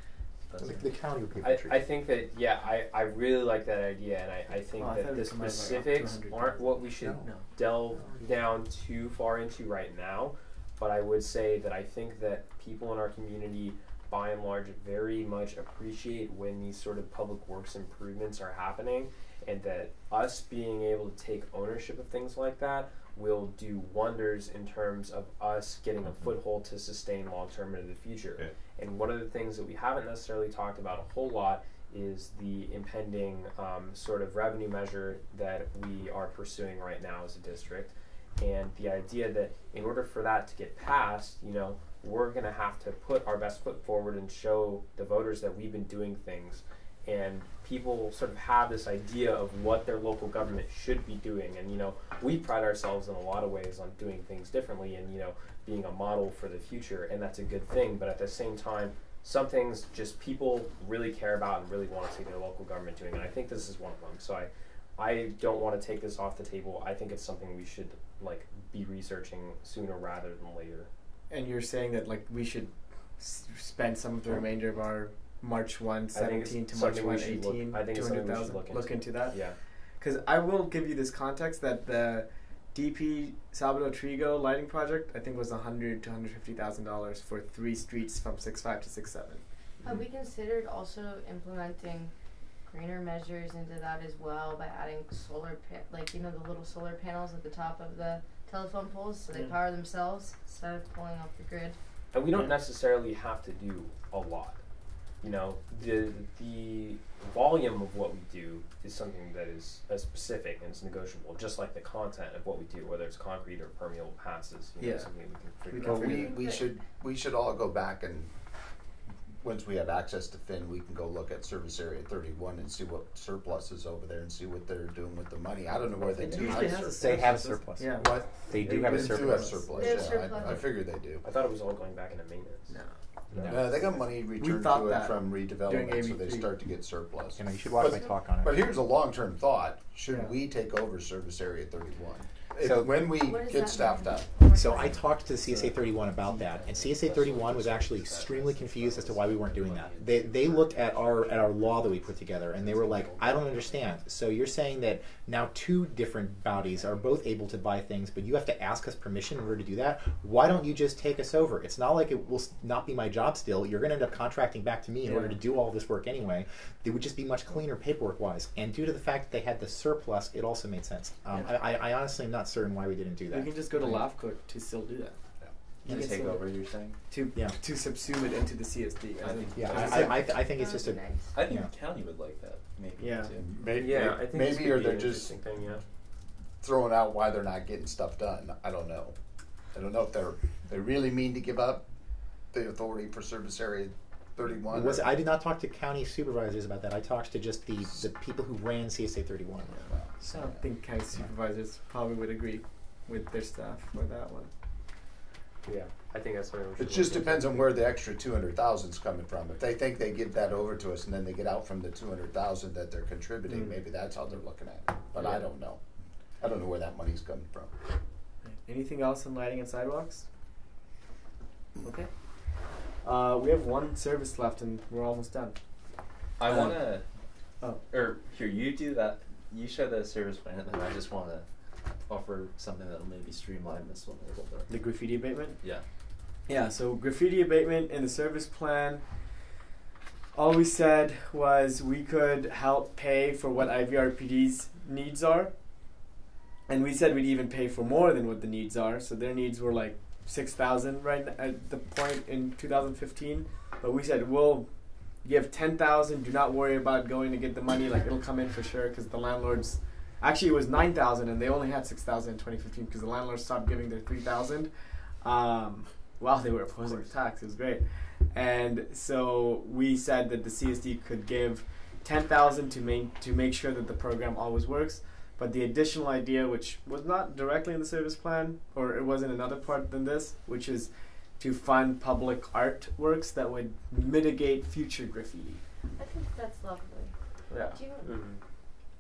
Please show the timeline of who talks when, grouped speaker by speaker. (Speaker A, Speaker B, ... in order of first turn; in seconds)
Speaker A: 0.5-0.8, 145.6-151.7, 152.6-153.8, 175.8-177.0, 179.2-180.1, 181.3-183.5, 226.4-227.1, 227.9-231.5, 232.0-234.7
Speaker B: 0.6-1.8, 7.0-7.3, 126.4-130.0, 133.3-133.7, 137.4-138.6, 142.6-143.0, 144.5-174.1, 179.6-181.7, 194.7-199.9
Speaker C: 1.4-70.9, 76.1-79.6, 102.1-104.6, 105.2-116.3, 131.2-132.8, 183.7-185.8, 205.7-207.7, 215.2-215.5, 288.0-288.4
Speaker D: 4.8-6.7, 71.3-79.4, 80.0-89.4, 114.8-115.1, 115.7-116.3, 126.2-129.6, 134.4-136.5, 140.1-140.3, 165.1-165.4, 173.3-175.2, 175.8-176.4, 177.1-180.2, 183.0-183.3, 200.2-204.5, 213.5-213.8, 218.4-220.3, 221.8-222.1, 223.0-225.6, 226.5-226.8, 234.7-235.6, 236.5-239.1, 240.3-245.5, 246.7-264.7, 265.2-285.6, 287.5-287.8
Speaker E: 89.8-92.1, 92.7-101.8, 116.1-116.7, 129.7-130.6, 143.2-145.0, 179.9-181.3, 286.0-287.1, 287.7-288.1
Speaker F: 115.8-118.3, 119.4-127.4, 128.7-131.2, 133.4-144.4, 183.4-185.4, 186.6-189.2, 189.7-191.8, 192.5-195.1, 199.7-200.7, 206.8-215.8, 216.4-217.7